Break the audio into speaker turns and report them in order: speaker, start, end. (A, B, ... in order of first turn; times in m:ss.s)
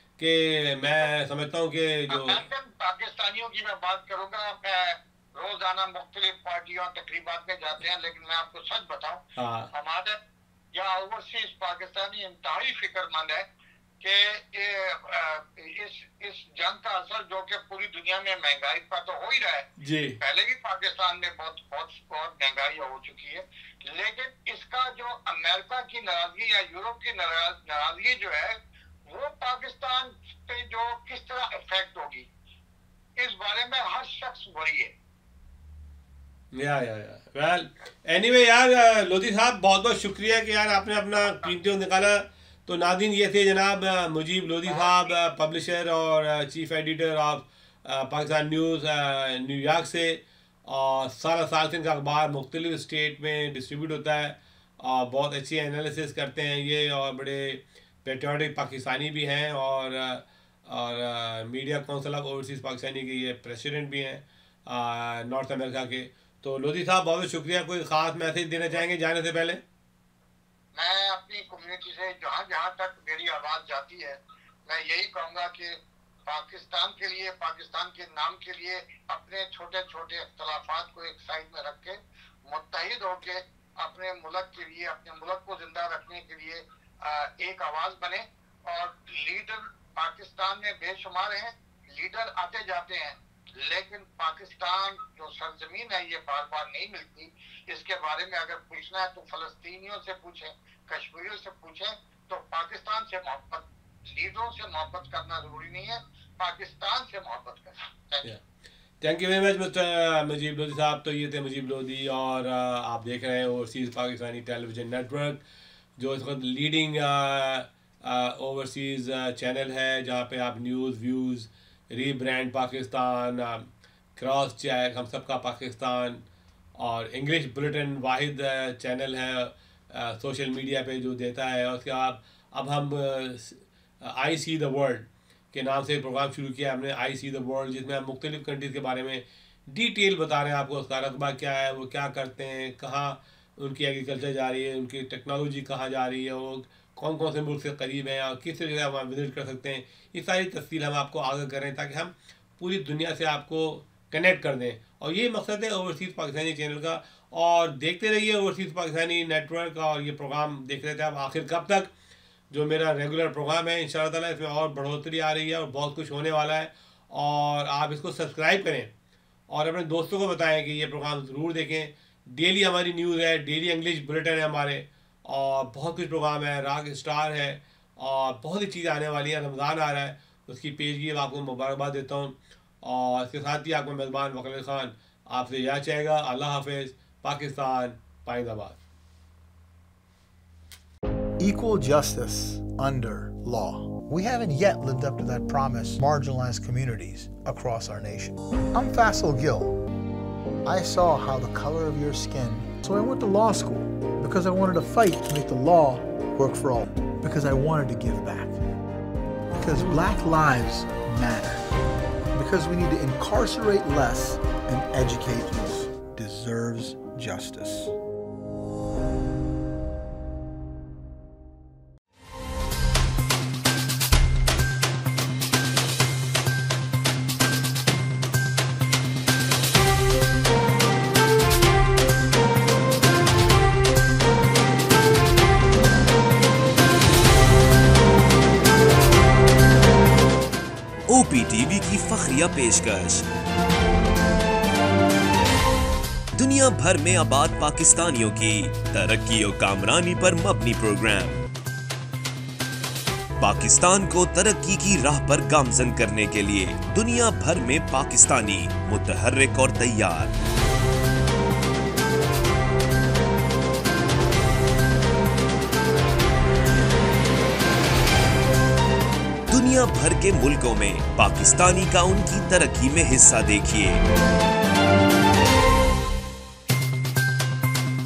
0:00.2-0:02.4 A
0:02.1-0:09.2 B
0:09.4-0:09.7 A
0:09.7-0:10.2 B
0:10.7-0:13.4 B
0:14.0-0:19.7 B
0:19.8-0:20.2 A
0:20.2-0:28.6 B
0:29.1-0:32.3 B
0:33.2-0:34.9 B
0:36.5-1:09.6 A
0:44.7-0:45.1 B
1:10.8-1:48.3 B
1:49.0-1:55.4 A
1:56.0-2:06.2 A
2:06.8-2:41.9 A
2:42.5-2:48.9 A
2:49.5-3:08.8 A
3:11.4-3:19.8 C
3:20.6-3:28.6 C
3:29.5-3:31.6 C
3:32.3-3:38.0 C
4:01.1-4:03.2 D
4:06.4-4:11.4 D
4:13.4-4:20.3 D
4:29.5-4:34.0 D